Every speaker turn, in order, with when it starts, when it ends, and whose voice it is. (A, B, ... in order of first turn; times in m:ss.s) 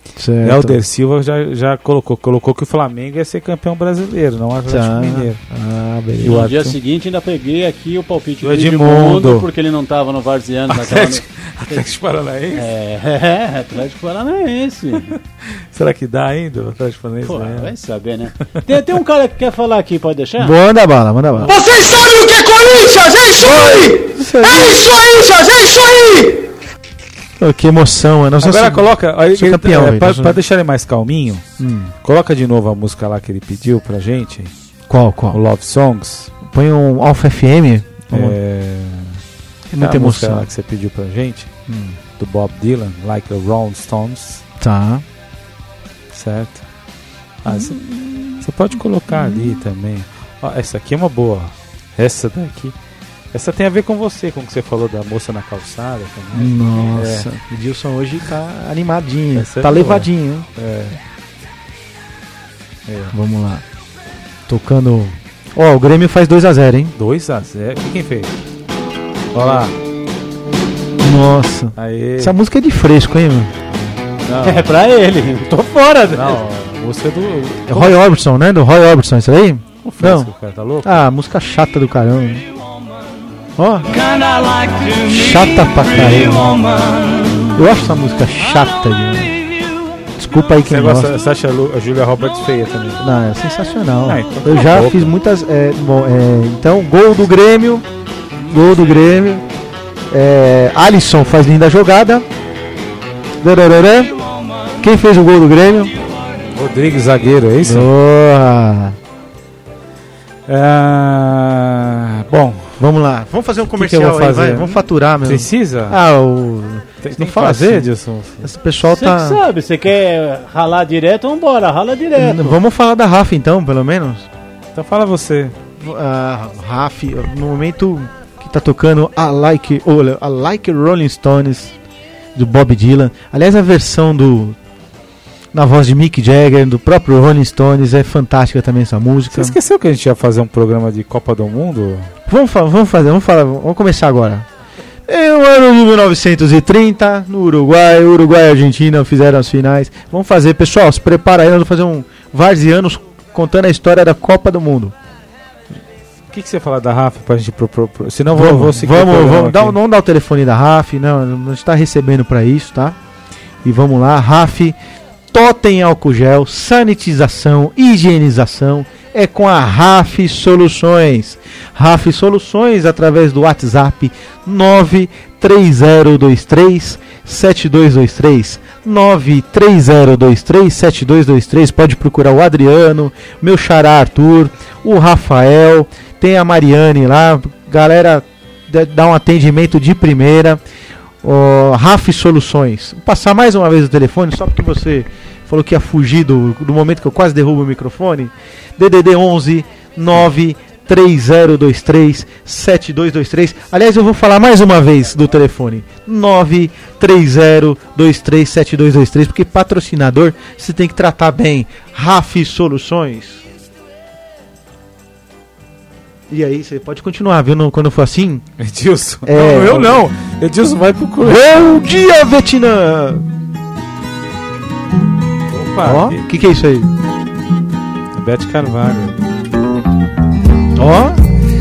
0:00.2-0:00.8 A
0:00.4-0:05.4 B
0:04.7-0:06.4 A
0:06.2-0:06.8 B
0:06.2-0:11.2 C
0:08.4-0:09.5 B
0:10.7-0:12.7 B
0:12.5-0:15.2 C
0:15.0-0:17.7 B
0:17.2-0:20.6 C
0:20.4-0:21.6 A
0:21.5-0:26.3 D
0:23.4-0:25.0 A
0:27.4-0:30.4 A
0:28.4-0:31.4 B
0:31.6-0:31.9 A
0:32.0-0:34.5 B
0:34.9-0:35.4 A
0:35.3-0:36.3 B
0:36.4-0:38.4 A
0:38.1-0:39.2 B
0:39.7-0:40.5 A
0:39.8-0:41.5 B
0:41.7-0:42.0 A
0:42.2-0:44.4 B
0:44.6-0:45.0 A
0:46.1-0:46.6 B
0:47.4-0:47.8 B
0:47.5-0:48.5 A
0:48.4-0:52.8 B
0:49.1-0:49.6 A
0:53.3-0:57.3 B
0:56.3-1:00.5 A
0:59.3-1:01.0 B
1:02.9-1:03.1 B
1:03.1-1:03.6 A
1:04.5-1:07.0 A
1:07.0-1:08.3 B
1:09.3-1:09.8 B
1:11.0-1:13.5 A
1:11.8-1:12.4 B
1:14.2-1:14.7 B
1:14.4-1:15.5 C
1:15.5-1:16.4 A
1:16.1-1:18.0 B
1:17.7-1:20.3 A
1:19.8-1:21.0 B
1:20.8-1:22.4 A
1:23.6-1:24.0 A
1:24.6-1:25.1 D
1:25.0-1:26.7 A
1:25.9-1:26.5 B
1:27.5-1:29.4 A
1:30.2-1:31.1 A
1:30.6-1:33.0 B
1:33.0-1:37.8 A
1:34.0-1:35.2 B
1:38.5-1:39.4 A
1:40.1-1:42.2 A
1:43.4-1:44.2 A
1:44.8-1:45.9 A
1:46.5-1:47.9 B
1:47.6-1:49.0 A
1:50.5-1:52.8 B
1:52.8-1:57.9 A
1:53.8-1:56.0 B
1:57.0-1:58.5 B
1:58.4-1:59.4 A
1:58.8-2:02.6 C
2:02.2-2:04.3 A
2:04.7-2:05.6 B
2:05.8-2:11.7 A
2:12.4-2:14.6 A
2:15.5-2:19.6 A
2:19.3-2:22.1 B
2:22.3-2:24.5 A
2:25.1-2:35.0 A
2:36.3-2:39.8 B
2:38.3-2:43.0 A
2:43.6-2:44.8 A
2:45.3-3:10.6 A
3:11.2-3:33.4 A
3:36.3-3:38.4 A
3:38.6-3:41.5 B
3:39.2-3:40.0 A
3:41.2-3:43.2 A
3:45.5-3:46.2 B
3:45.8-3:46.9 A
3:48.1-3:49.2 B
3:50.8-3:51.2 A